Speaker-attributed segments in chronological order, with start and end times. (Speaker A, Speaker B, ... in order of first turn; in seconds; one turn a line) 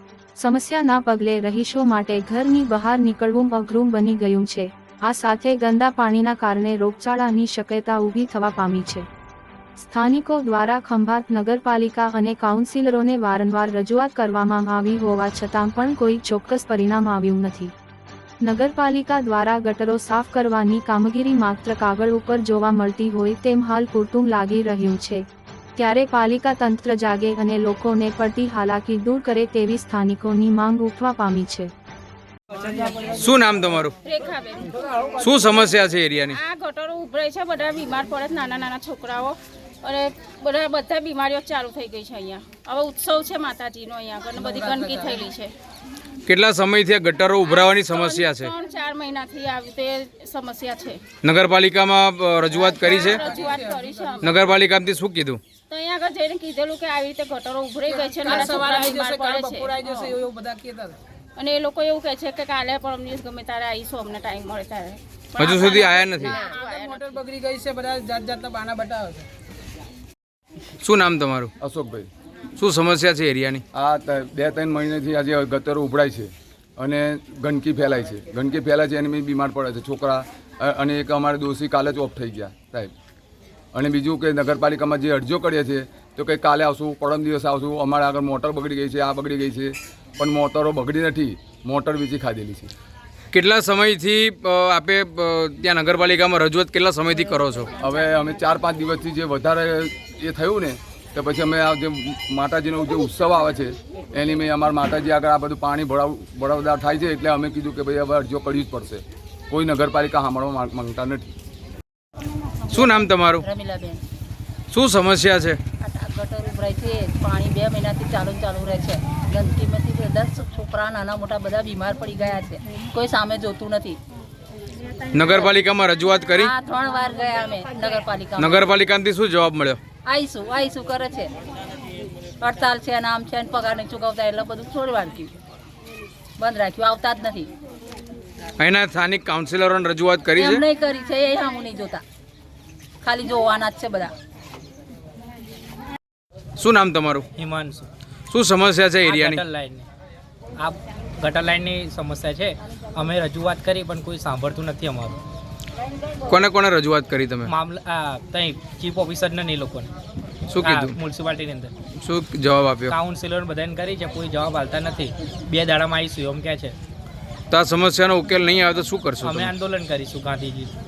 Speaker A: 0.4-9.1
Speaker A: 9.8-17.7
Speaker A: 18.4-25.2
Speaker A: 25.8-31.7
Speaker B: 33.0-34.0
Speaker C: 34.0-35.1
Speaker B: 35.2-36.4
Speaker C: 36.3-45.5
Speaker D: 44.4-45.3
Speaker B: 46.3-48.5
Speaker C: 47.4-51.0
Speaker B: 51.2-53.2
Speaker D: 52.8-54.1
Speaker C: 52.8-54.3
Speaker B: 54.2-55.4
Speaker C: 55.7-60.2
Speaker D: 57.9-61.0
Speaker C: 61.4-67.2
Speaker B: 65.4-66.4
Speaker D: 66.3-69.2
Speaker B: 70.8-71.5
Speaker E: 71.6-72.1
Speaker B: 72.6-73.6
Speaker E: 73.7-82.9
Speaker E: 83.7-92.7
Speaker B: 93.3-97.7
Speaker E: 97.8-111.3
Speaker B: 112.7-113.4
Speaker F: 112.7-114.0
Speaker B: 114.7-115.6
Speaker F: 115.8-124.0
Speaker B: 125.1-126.5
Speaker F: 125.2-125.6
Speaker F: 126.3-128.8
Speaker B: 128.4-129.8
Speaker F: 130.0-131.3
Speaker F: 132.4-135.3
Speaker F: 136.4-137.5
Speaker B: 138.6-140.6
Speaker F: 140.3-142.0
Speaker F: 143.0-144.1
Speaker B: 146.6-147.3
Speaker G: 147.3-147.9
Speaker B: 148.3-149.4
Speaker G: 149.0-149.9
Speaker G: 150.6-155.2
Speaker B: 156.3-157.5
Speaker G: 157.5-159.9
Speaker B: 160.5-161.0
Speaker G: 160.6-161.7
Speaker B: 162.0-162.9
Speaker G: 162.9-166.8
Speaker B: 167.5-169.5
Speaker G: 169.2-170.7